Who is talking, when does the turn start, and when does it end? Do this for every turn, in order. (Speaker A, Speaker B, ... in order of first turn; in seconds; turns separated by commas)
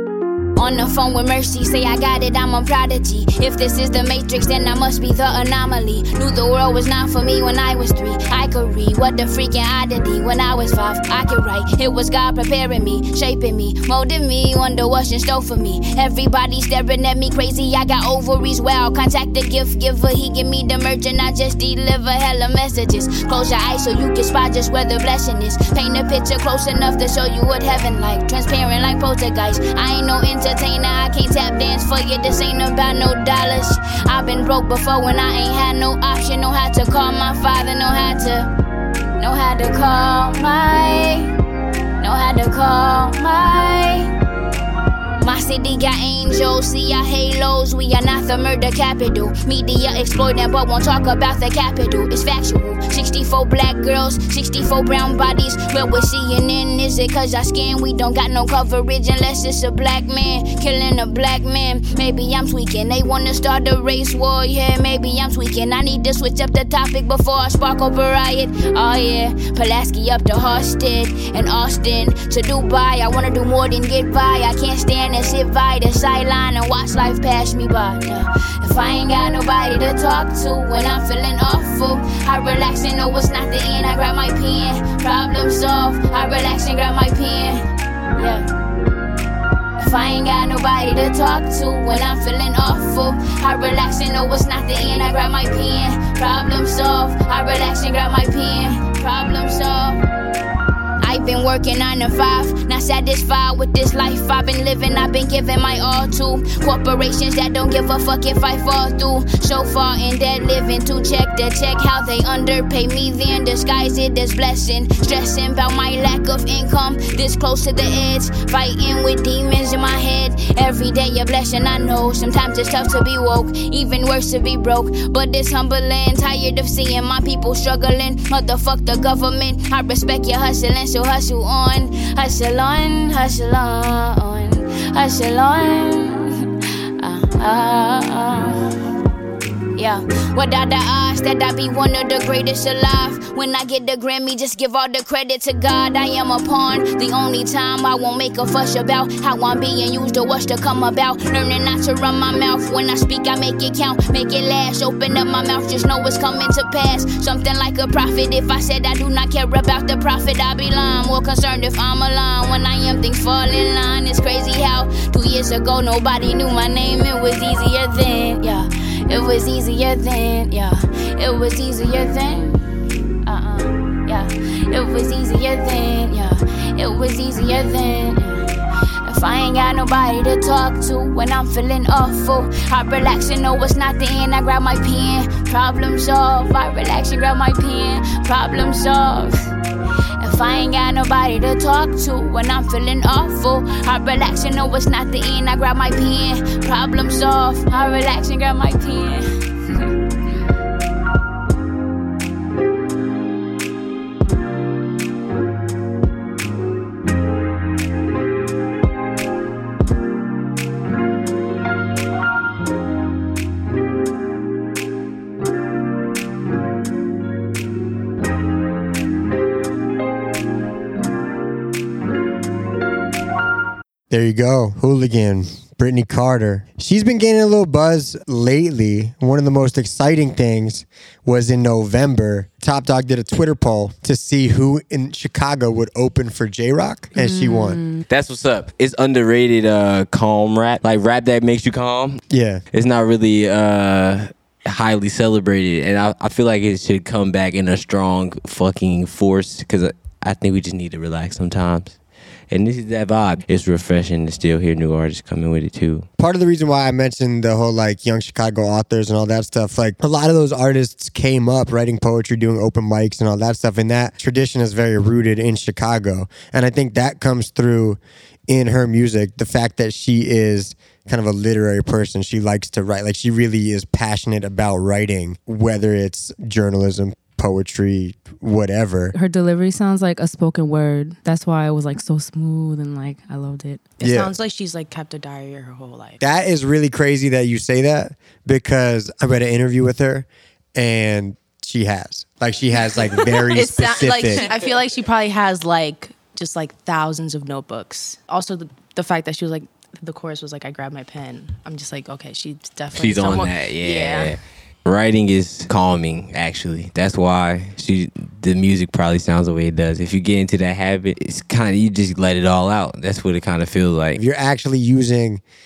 Speaker A: 0.6-38.5, Speaker A: 39.2-41.3, Speaker A: 42.0-44.1, Speaker A: 45.2-87.6, Speaker A: 88.2-88.4, Speaker A: 89.8-100.0, Speaker A: 101.0-136.3, Speaker A: 137.0-138.7, Speaker A: 139.8-172.6, Speaker A: 173.2-178.4, Speaker A: 179.0-189.4, Speaker A: 190.2-199.2, Speaker B: 224.1-237.8, Speaker C: 237.1-238.0, Speaker D: 238.1-252.0, Speaker B: 242.3-242.6, Speaker D: 252.5-256.1, Speaker B: 256.2-279.1, Speaker C: 279.1-283.9, Speaker E: 284.0-286.2, Speaker B: 284.0-284.3, Speaker B: 286.2-294.5, Speaker E: 293.5-304.4, Speaker D: 302.9-314.2, Speaker B: 314.1-315.4